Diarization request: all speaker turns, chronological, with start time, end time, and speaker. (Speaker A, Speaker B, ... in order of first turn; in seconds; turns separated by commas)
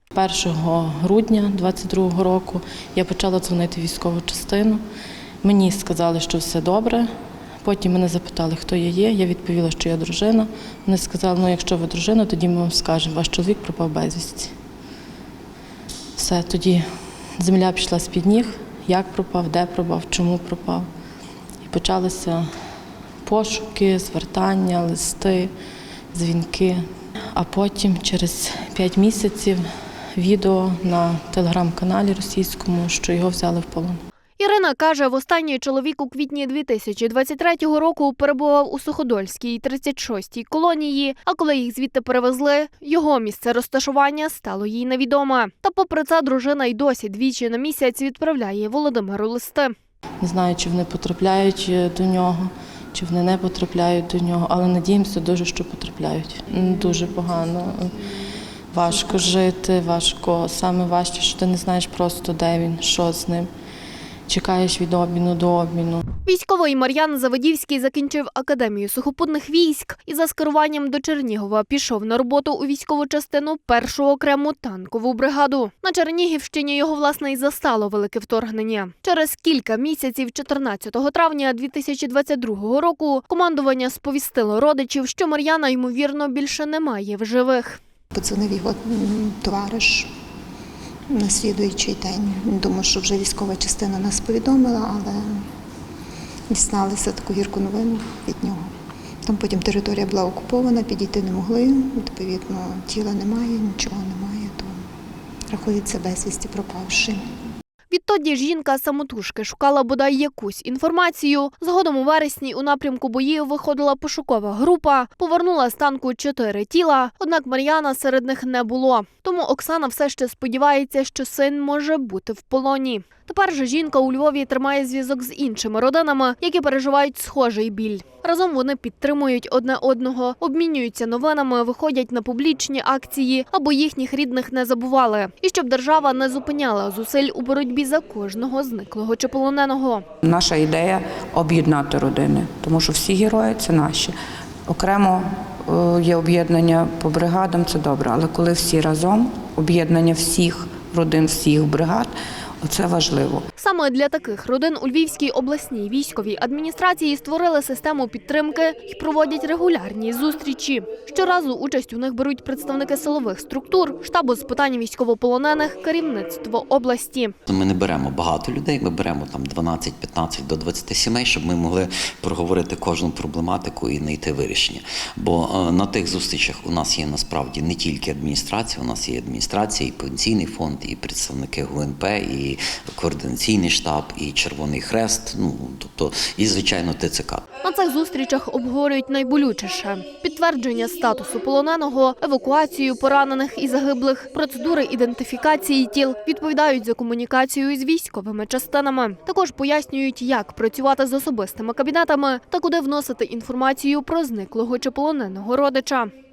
Speaker A: 0.1-4.8, Speaker A: 5.4-7.1, Speaker A: 7.6-14.5, Speaker A: 16.1-16.8, Speaker A: 17.4-20.9, Speaker A: 21.6-22.4, Speaker A: 23.2-25.5, Speaker A: 26.1-26.8, Speaker A: 27.3-29.6, Speaker A: 30.1-34.0, Speaker B: 34.4-49.7, Speaker A: 50.2-58.0, Speaker A: 58.7-63.5, Speaker A: 64.3-66.0, Speaker B: 66.2-87.8, Speaker C: 88.1-90.1, Speaker C: 91.1-95.4, Speaker C: 96.5-98.7, Speaker C: 99.2-104.8, Speaker C: 105.5-107.2, Speaker B: 107.9-140.0, Speaker D: 140.2-144.1, Speaker D: 144.7-153.4, Speaker B: 153.6-167.3, Speaker E: 167.4-187.4, Speaker B: 187.6-206.1